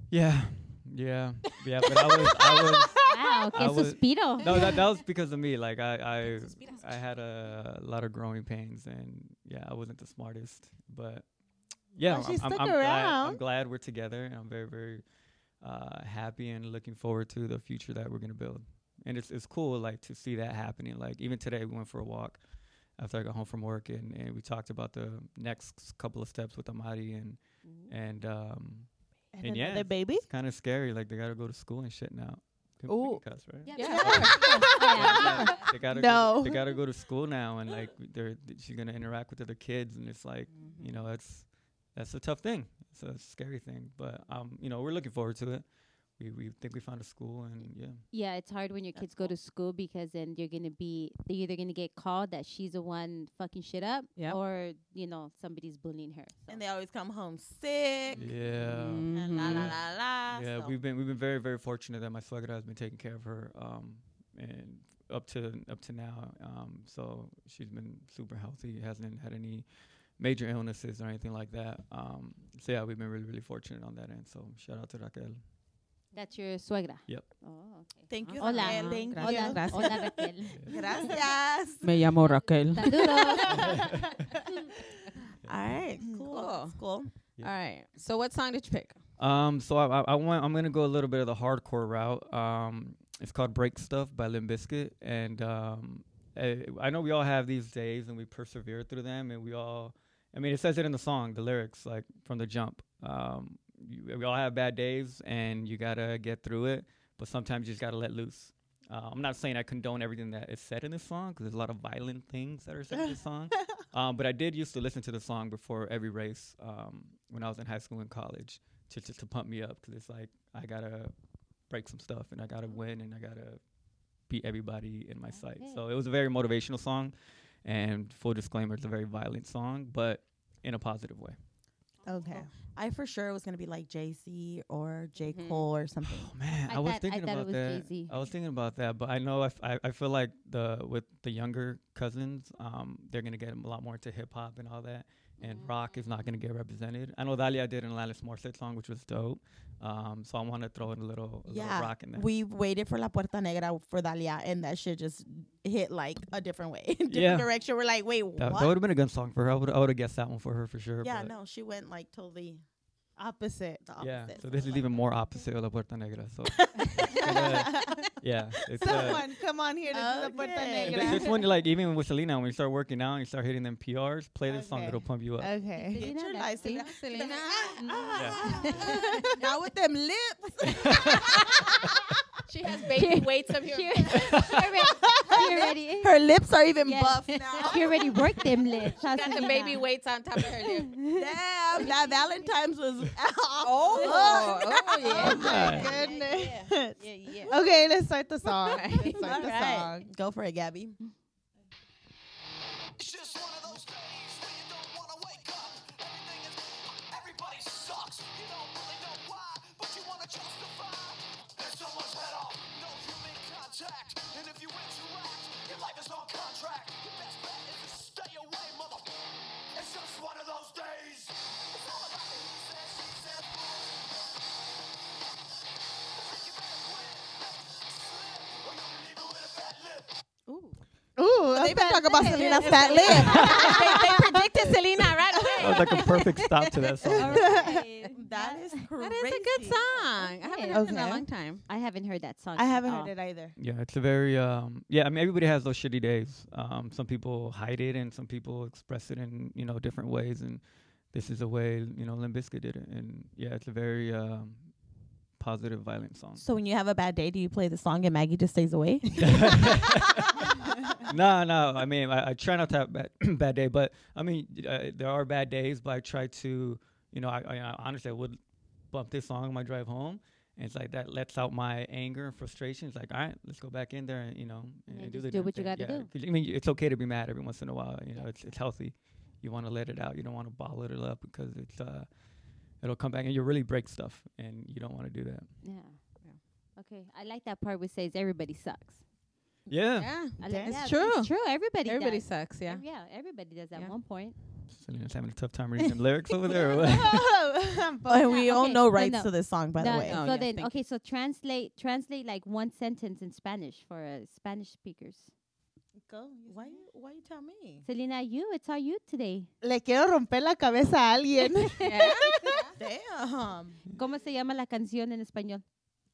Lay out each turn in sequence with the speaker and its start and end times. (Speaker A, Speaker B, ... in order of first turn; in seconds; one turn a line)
Speaker A: 0.1-11.3
Speaker B: 2.0-3.4
Speaker C: 3.0-4.6
Speaker D: 6.2-7.0
Speaker A: 11.9-15.0
Speaker B: 12.0-13.4
Speaker A: 15.6-22.4
Speaker A: 23.0-27.4
Speaker C: 27.6-27.9
Speaker A: 27.9-28.9
Speaker B: 29.3-30.3
Speaker A: 29.4-45.6
Speaker B: 32.9-33.2
Speaker C: 33.7-35.7
Speaker D: 33.7-35.6
Speaker B: 33.9-36.7
Speaker D: 40.5-40.9
Speaker A: 46.2-48.0
Speaker C: 48.1-56.6
Speaker D: 49.0-49.3
Speaker E: 56.5-58.2
Speaker A: 58.2-69.7
Speaker D: 58.6-59.8
Speaker E: 59.1-60.8
Speaker A: 70.2-75.4
Speaker C: 76.1-80.6
Speaker E: 78.1-82.4
Speaker D: 78.2-80.2
Speaker B: 79.0-79.9
Speaker A: 80.5-80.9
Speaker B: 80.7-81.2
Speaker D: 81.8-83.7
Speaker C: 82.7-83.8
Speaker A: 83.5-84.4
Speaker B: 83.5-84.0
Speaker E: 85.4-87.1
Speaker D: 86.2-86.8
Speaker D: 87.4-89.0
Speaker A: 89.2-121.1
Speaker A: 121.7-123.6
Speaker A: 124.3-131.4
Speaker C: 125.3-125.8
Speaker B: 132.1-132.5
Speaker E: 132.4-136.3
Speaker D: 135.3-135.7
Speaker A: 136.1-152.3
Speaker C: 136.7-138.1
Speaker C: 145.4-145.7
Speaker E: 151.5-158.8
Speaker A: 157.1-157.5
Speaker A: 158.4-161.3
Speaker E: 161.0-162.6
Speaker B: 163.2-163.9
Speaker E: 163.8-164.9
Speaker A: 164.0-169.3
Speaker E: 166.6-167.8
Speaker B: 167.2-168.1
Speaker E: 168.7-169.2
Speaker B: 168.8-171.4
Speaker E: 169.9-171.4
Speaker A: 170.9-175.5
Speaker B: 174.5-176.1
Speaker C: 175.8-176.9
Speaker E: 175.9-181.9
Speaker D: 176.6-179.3
Speaker B: 178.1-179.2
Speaker A: 178.2-178.5
Speaker A: 180.7-181.4
Speaker D: 182.5-184.5
Speaker C: 182.9-186.2
Speaker E: 184.1-188.4
Speaker B: 185.0-185.5
Speaker C: 186.8-189.8
Speaker D: 187.3-187.8
Speaker D: 189.0-190.9
Speaker C: 191.0-191.2
Speaker E: 191.1-196.1
Speaker D: 193.6-197.6
Speaker B: 193.9-200.1
Speaker C: 195.1-195.5
Speaker A: 195.2-196.1
Speaker D: 198.5-199.6
Speaker E: 199.2-201.0
Speaker F: 203.0-219.2
Speaker F: 219.7-224.3
Speaker F: 226.1-230.2
Speaker B: 231.2-234.7
Speaker E: 231.5-234.5
Speaker D: 232.2-237.2
Speaker A: 233.2-233.8
Speaker B: 235.4-236.1
Speaker A: 235.6-237.6
Speaker C: 237.0-238.8
Speaker B: 237.3-237.8
Speaker E: 237.4-240.2
Speaker D: 239.0-241.6
Speaker C: 240.2-241.1
Speaker B: 240.7-241.3
Speaker C: 241.7-243.1
Speaker B: 242.6-243.6
Speaker A: 243.6-254.7
Speaker A: 255.4-256.5
Speaker E: 256.4-260.0
Speaker A: 259.2-268.4
Speaker A: 268.9-282.1
Speaker C: 274.9-276.1
Speaker A: 282.8-285.5
Speaker C: 285.6-286.0
Speaker C: 286.8-289.0
Speaker A: 289.7-290.3
Speaker D: 290.0-291.3
Speaker C: 290.4-294.4
Speaker B: 290.4-290.8
Speaker D: 291.9-292.8
Speaker A: 294.7-297.3
Speaker B: 296.5-298.4
Speaker E: 298.1-300.3
Speaker C: 298.2-305.3
Speaker D: 300.0-300.7
Speaker B: 306.1-306.9
Speaker E: 306.5-307.9
Speaker C: 307.9-309.5
Speaker B: 309.6-312.6
Speaker C: 311.6-312.6
Speaker D: 311.8-312.7
Speaker E: 312.7-313.8
Speaker C: 313.9-315.6